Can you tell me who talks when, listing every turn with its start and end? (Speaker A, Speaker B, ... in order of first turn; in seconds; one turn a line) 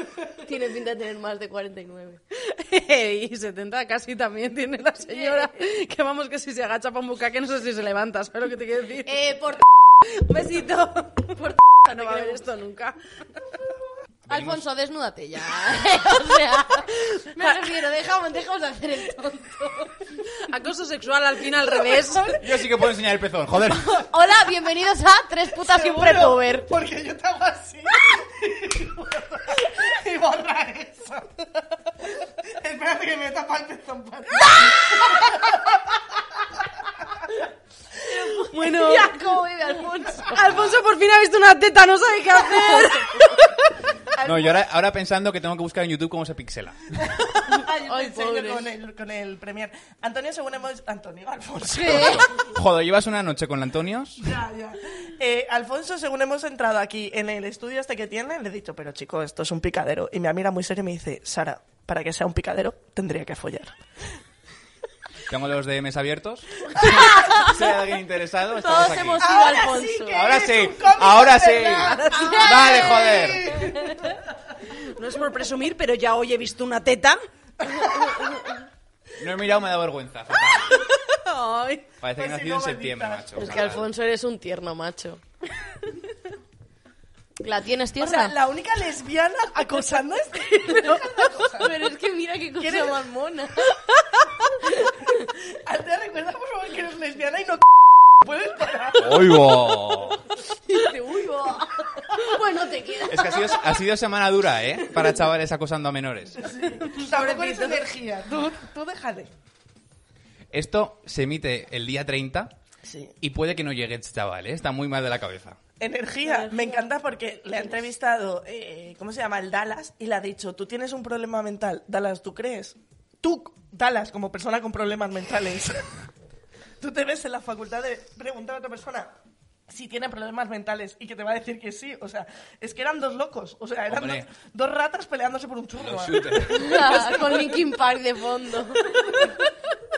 Speaker A: 0.2-2.2
Speaker B: 2.3-9.2
Speaker A: 5.1-5.5
Speaker A: 9.1-9.7
Speaker B: 10.0-13.0
Speaker A: 11.4-12.4
Speaker C: 14.2-14.6
Speaker A: 14.3-20.1
Speaker B: 20.2-22.7
Speaker C: 22.4-24.1
Speaker A: 23.7-26.7
Speaker D: 25.6-36.0
Speaker A: 38.1-40.4
Speaker B: 38.4-39.2
Speaker B: 40.1-43.8
Speaker C: 40.4-40.8
Speaker D: 44.2-44.6
Speaker C: 44.2-47.0
Speaker D: 47.0-52.5
Speaker A: 47.5-48.7
Speaker B: 51.7-52.2
Speaker C: 51.8-54.4
Speaker D: 54.2-63.8
Speaker C: 65.3-69.3
Speaker A: 66.8-67.6
Speaker A: 68.5-70.3
Speaker D: 69.2-74.2
Speaker C: 70.1-73.7
Speaker B: 71.8-72.7
Speaker A: 72.1-74.1
Speaker B: 74.7-77.2
Speaker C: 79.2-80.8
Speaker B: 80.6-81.8
Speaker C: 82.0-83.9
Speaker D: 82.1-83.3
Speaker A: 83.3-85.2
Speaker A: 87.4-88.3
Speaker D: 88.0-91.8
Speaker A: 91.6-93.8
Speaker D: 92.6-93.1
Speaker D: 94.7-99.9
Speaker C: 99.0-100.2
Speaker A: 100.7-103.7
Speaker C: 103.1-106.4
Speaker D: 106.3-109.3
Speaker B: 106.7-107.8
Speaker C: 110.5-112.5
Speaker D: 112.8-113.1
Speaker C: 113.2-115.6
Speaker D: 115.8-126.0
Speaker B: 116.3-116.8
Speaker D: 126.8-129.1
Speaker D: 129.7-137.1
Speaker C: 133.9-134.3
Speaker C: 135.8-137.1
Speaker A: 136.5-139.2
Speaker D: 139.0-139.3